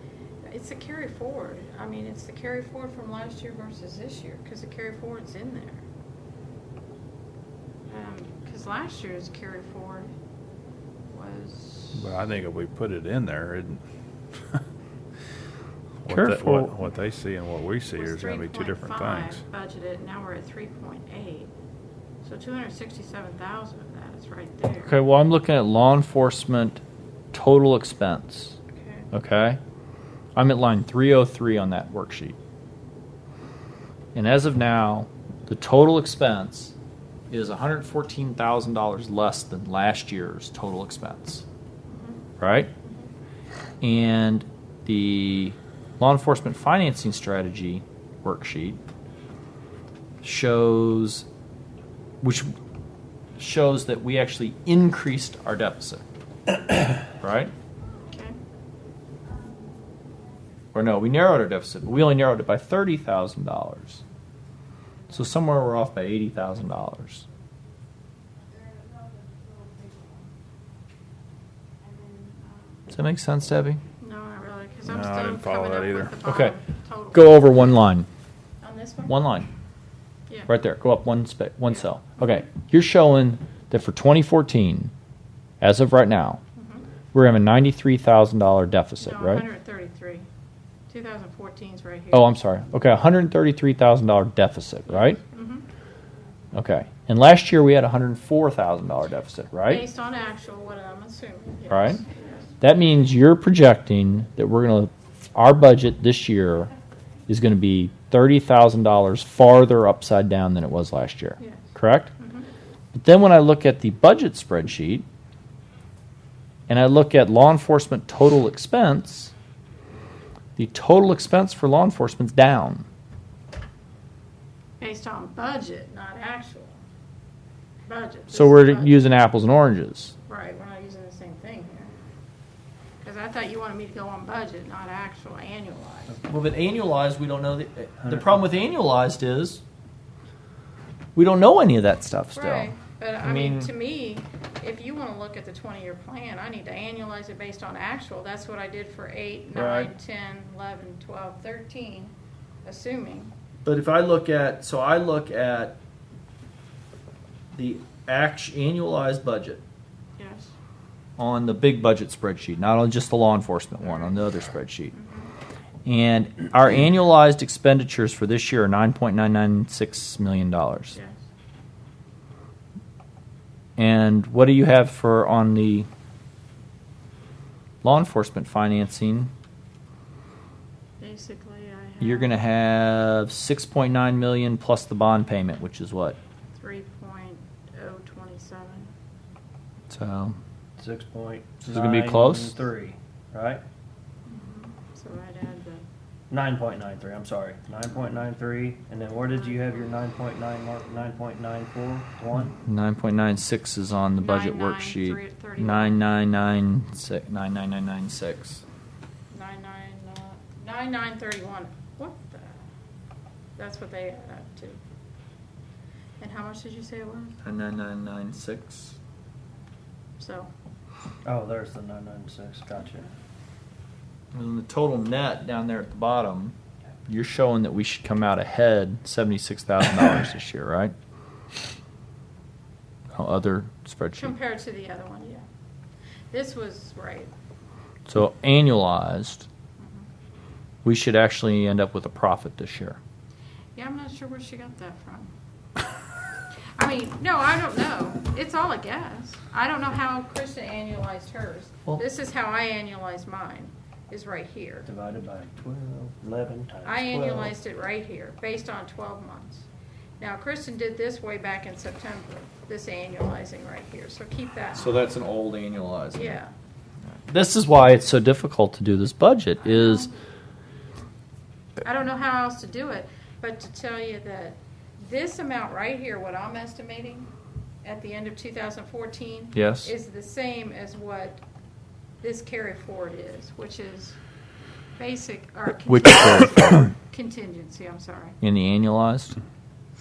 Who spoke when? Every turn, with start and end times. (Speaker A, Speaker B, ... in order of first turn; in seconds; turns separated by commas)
Speaker A: 0.4-5.8, Speaker A: 7.9-10.1, Speaker A: 11.1-12.1, Speaker B: 11.9-13.8, Speaker B: 16.0-19.4, Speaker C: 16.1-16.8, Speaker A: 17.9-21.5, Speaker A: 22.2-24.9, Speaker C: 24.8-26.8, Speaker C: 27.3-28.6, Speaker A: 28.7-29.1, Speaker C: 29.1-29.6, Speaker C: 30.4-32.4, Speaker C: 34.1-36.7, Speaker C: 37.3-41.4, Speaker A: 41.9-42.2, Speaker C: 42.4-42.7, Speaker A: 42.8-43.1, Speaker C: 43.8-48.8, Speaker C: 50.2-51.2, Speaker C: 52.2-52.5, Speaker C: 53.4-56.0, Speaker C: 56.7-57.5, Speaker A: 58.1-58.4, Speaker C: 60.7-64.0, Speaker C: 65.1-67.2, Speaker A: 71.9-72.9, Speaker C: 72.9-73.8, Speaker A: 74.0-77.4, Speaker B: 74.8-76.2, Speaker C: 76.2-76.6, Speaker C: 77.1-78.1, Speaker A: 78.6-79.1, Speaker C: 79.1-79.5, Speaker C: 80.5-84.9, Speaker C: 85.6-86.4, Speaker A: 86.5-86.9, Speaker C: 87.1-89.4, Speaker A: 89.0-90.3, Speaker A: 90.9-92.3, Speaker C: 92.1-95.2, Speaker A: 95.0-95.7, Speaker C: 96.5-99.8, Speaker A: 99.7-102.5, Speaker C: 101.7-102.0, Speaker C: 102.6-106.7, Speaker C: 107.3-112.1, Speaker A: 111.4-112.5, Speaker C: 112.9-115.0, Speaker C: 116.7-119.3, Speaker C: 120.6-122.8, Speaker A: 124.8-126.8, Speaker A: 127.8-129.0, Speaker C: 128.3-130.1, Speaker A: 130.2-131.9, Speaker A: 133.0-136.2, Speaker C: 136.2-139.6, Speaker C: 141.2-143.7, Speaker A: 142.3-152.1, Speaker C: 149.5-149.9, Speaker A: 152.6-153.3, Speaker C: 153.6-155.8, Speaker C: 157.5-159.6, Speaker A: 160.2-160.5, Speaker C: 161.2-164.9, Speaker A: 163.8-164.2, Speaker A: 164.9-165.3, Speaker C: 165.8-171.0, Speaker A: 170.9-171.2, Speaker C: 173.8-175.9, Speaker C: 177.8-179.3, Speaker A: 181.0-182.3, Speaker C: 182.0-186.2, Speaker A: 186.5-188.9, Speaker C: 189.9-190.4, Speaker D: 190.8-193.6, Speaker C: 191.6-192.6, Speaker A: 194.3-195.8, Speaker D: 196.3-202.6, Speaker A: 199.2-199.9, Speaker C: 202.4-208.6, Speaker A: 204.2-206.0, Speaker A: 209.3-212.7, Speaker A: 213.6-214.8, Speaker A: 216.2-217.4, Speaker C: 217.4-219.0, Speaker A: 220.2-220.5, Speaker D: 221.2-223.1, Speaker C: 224.3-226.6, Speaker C: 227.1-230.9, Speaker C: 233.1-234.3, Speaker A: 234.2-235.4, Speaker A: 236.3-237.3, Speaker C: 238.1-239.5, Speaker A: 239.8-240.1, Speaker C: 240.8-243.0, Speaker A: 243.8-245.3, Speaker A: 246.8-254.9, Speaker D: 254.8-257.5, Speaker A: 256.8-259.7, Speaker A: 260.2-264.9, Speaker C: 264.7-266.4, Speaker A: 266.1-266.5, Speaker C: 267.2-270.1, Speaker A: 269.6-270.1, Speaker A: 271.8-277.3, Speaker A: 277.8-281.4, Speaker C: 279.5-279.9, Speaker A: 282.2-284.2, Speaker A: 284.9-288.4, Speaker C: 285.9-286.9, Speaker C: 288.4-289.4